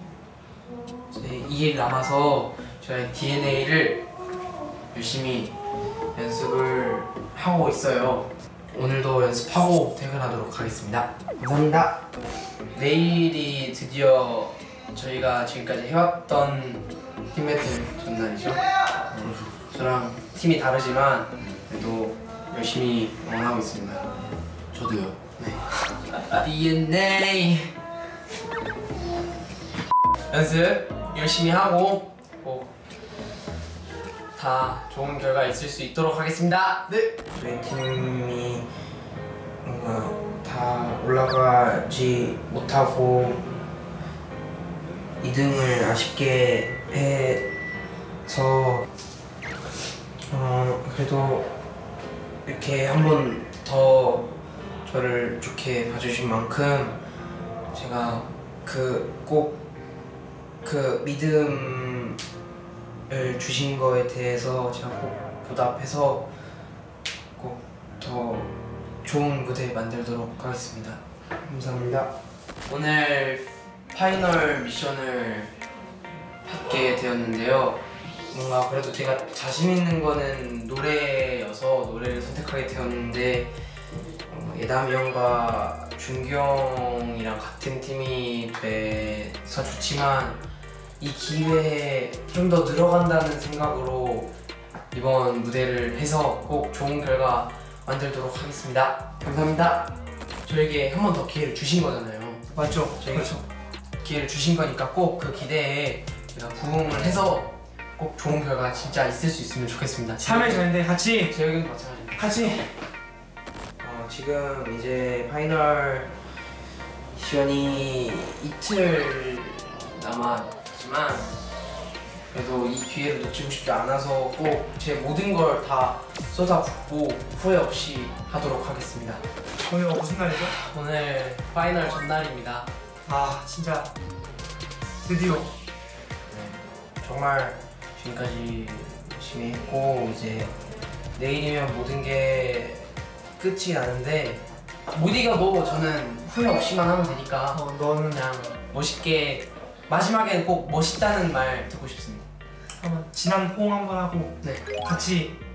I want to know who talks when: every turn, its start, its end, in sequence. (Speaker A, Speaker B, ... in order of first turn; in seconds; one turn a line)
Speaker A: 1.1-4.0
Speaker A: 4.9-5.5
Speaker A: 6.1-12.0
Speaker A: 12.7-18.6
Speaker A: 19.1-24.0
Speaker A: 24.7-25.7
Speaker A: 26.2-27.7
Speaker A: 30.3-32.7
Speaker A: 34.4-38.7
Speaker A: 39.6-43.4
Speaker A: 45.2-47.5
Speaker A: 48.2-48.9
Speaker A: 50.3-51.5
Speaker A: 52.5-54.3
Speaker A: 54.8-57.0
Speaker A: 57.7-59.5
Speaker A: 60.6-62.2
Speaker A: 63.1-66.3
Speaker A: 67.4-68.5
Speaker A: 69.0-72.1
Speaker A: 72.7-75.5
Speaker A: 76.4-83.5
Speaker A: 84.3-90.4
Speaker A: 91.0-94.3
Speaker A: 94.9-99.9
Speaker A: 100.4-103.4
Speaker B: 102.5-103.4
Speaker A: 104.0-110.6
Speaker B: 110.2-111.3
Speaker A: 111.3-112.5
Speaker B: 112.2-112.7
Speaker A: 113.8-116.2
Speaker A: 117.1-121.4
Speaker A: 122.3-129.2
Speaker B: 129.6-130.5
Speaker A: 130.4-132.7
Speaker B: 133.1-133.9
Speaker B: 135.0-135.5
Speaker A: 136.3-140.5
Speaker A: 141.2-152.2
Speaker B: 147.5-148.2
Speaker B: 152.8-155.3
Speaker A: 154.4-154.7